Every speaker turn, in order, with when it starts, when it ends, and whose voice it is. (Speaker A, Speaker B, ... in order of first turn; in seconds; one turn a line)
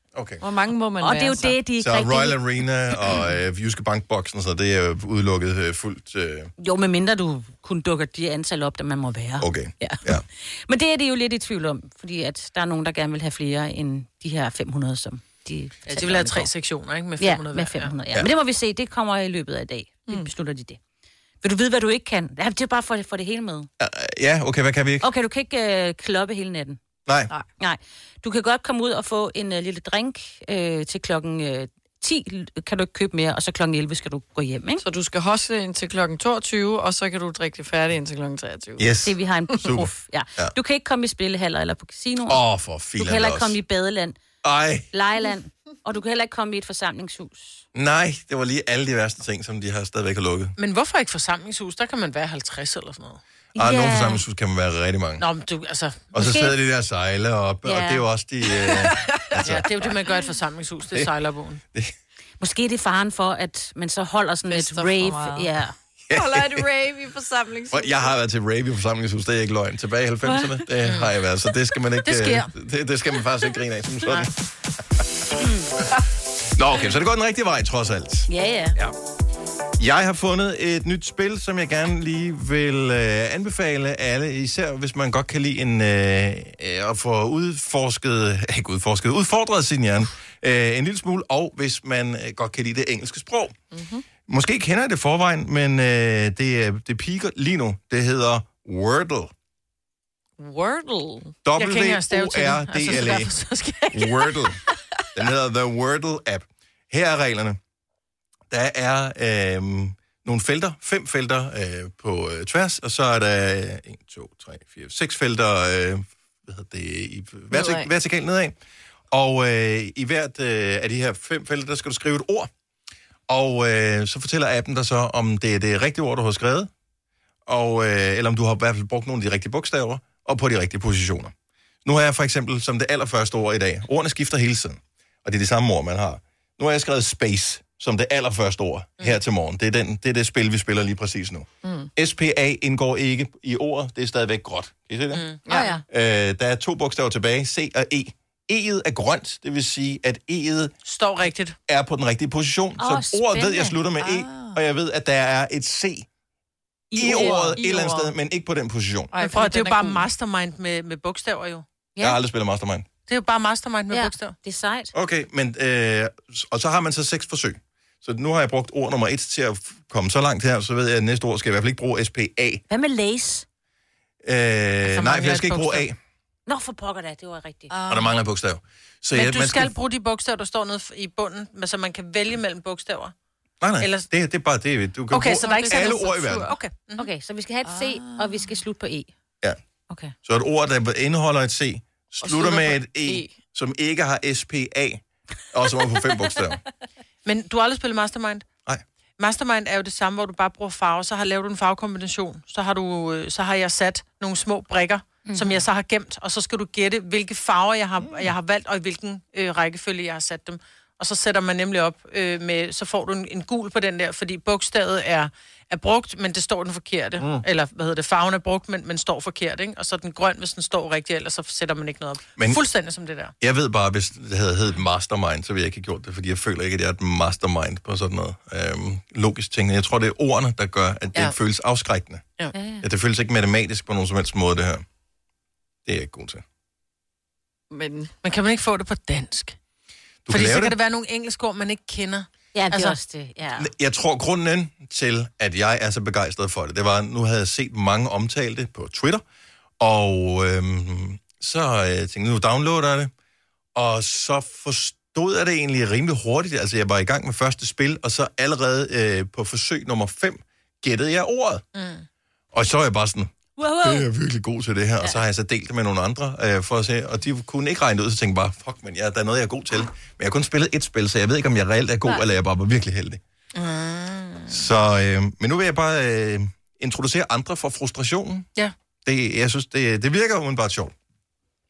Speaker A: 0.1-0.4
Speaker B: 0.4-1.6
Speaker C: 1.0-2.4
Speaker A: 1.8-6.5
Speaker C: 6.6-16.5
Speaker A: 9.4-10.2
Speaker D: 15.8-17.9
Speaker C: 17.2-20.8
Speaker C: 21.4-23.7
Speaker A: 23.8-25.1
Speaker C: 25.0-26.8
Speaker A: 27.1-27.3
Speaker C: 27.6-34.8
Speaker B: 34.8-38.9
Speaker A: 38.8-40.5
Speaker C: 39.0-42.4
Speaker A: 42.3-43.5
Speaker C: 43.0-44.2
Speaker A: 44.4-44.9
Speaker C: 44.9-47.6
Speaker A: 47.7-50.5
Speaker D: 50.6-53.2
Speaker C: 53.5-54.2
Speaker A: 53.5-55.2
Speaker D: 55.2-56.1
Speaker A: 56.1-59.7
Speaker C: 56.1-56.5
Speaker C: 57.6-58.0
Speaker B: 58.6-59.4
Speaker D: 59.5-61.6
Speaker C: 62.4-65.7
Speaker B: 64.5-65.5
Speaker A: 66.1-66.7
Speaker B: 66.1-68.1
Speaker A: 67.7-74.3
Speaker B: 70.2-70.6
Speaker D: 72.0-72.5
Speaker A: 76.0-78.9
Speaker C: 78.3-78.8
Speaker A: 79.8-93.5
Speaker B: 93.7-94.0
Speaker A: 94.3-99.3
Speaker B: 100.4-101.3
Speaker A: 101.4-103.3
Speaker D: 101.6-104.4
Speaker A: 103.9-104.6
Speaker A: 105.1-107.6
Speaker A: 108.5-118.5
Speaker B: 117.5-117.9
Speaker A: 119.1-122.5
Speaker A: 123.3-126.7
Speaker A: 127.5-131.3
Speaker A: 131.8-145.2
Speaker B: 141.6-141.9
Speaker B: 145.4-145.8
Speaker C: 145.5-145.8
Speaker A: 145.9-150.7
Speaker D: 150.8-151.6
Speaker A: 151.7-156.1
Speaker C: 152.8-153.8
Speaker B: 154.0-154.6
Speaker C: 156.9-157.6
Speaker A: 156.9-159.1
Speaker B: 157.0-158.1
Speaker B: 159.1-160.1
Speaker D: 159.2-161.6
Speaker A: 162.0-162.9
Speaker D: 163.1-164.3
Speaker C: 163.9-164.9
Speaker A: 164.9-172.6
Speaker C: 172.7-173.4
Speaker A: 174.2-176.0
Speaker D: 174.8-175.8
Speaker C: 176.5-177.7
Speaker B: 177.7-178.1
Speaker A: 177.9-179.7
Speaker D: 179.1-183.1
Speaker A: 183.6-186.5
Speaker D: 183.8-184.1
Speaker D: 185.1-187.1
Speaker B: 185.4-186.5
Speaker C: 187.0-189.1
Speaker B: 187.6-188.4
Speaker A: 190.2-196.6
Speaker B: 192.2-193.3
Speaker D: 197.2-198.5
Speaker D: 199.2-223.3
Speaker C: 205.2-205.6
Speaker A: 217.2-217.4
Speaker A: 223.4-232.2
Speaker C: 232.5-232.8
Speaker A: 232.8-234.8
Speaker A: 235.8-236.4
Speaker B: 237.7-238.1
Speaker D: 238.2-239.6
Speaker A: 240.2-240.8
Speaker D: 240.3-243.0
Speaker C: 242.5-243.7
Speaker A: 243.6-249.2
Speaker A: 249.8-253.1
Speaker A: 253.7-261.6
Speaker D: 261.7-262.0
Speaker A: 262.5-263.3
Speaker C: 263.6-264.1
Speaker A: 263.8-273.2
Speaker D: 273.5-274.6
Speaker A: 274.5-278.5
Speaker A: 279.0-280.9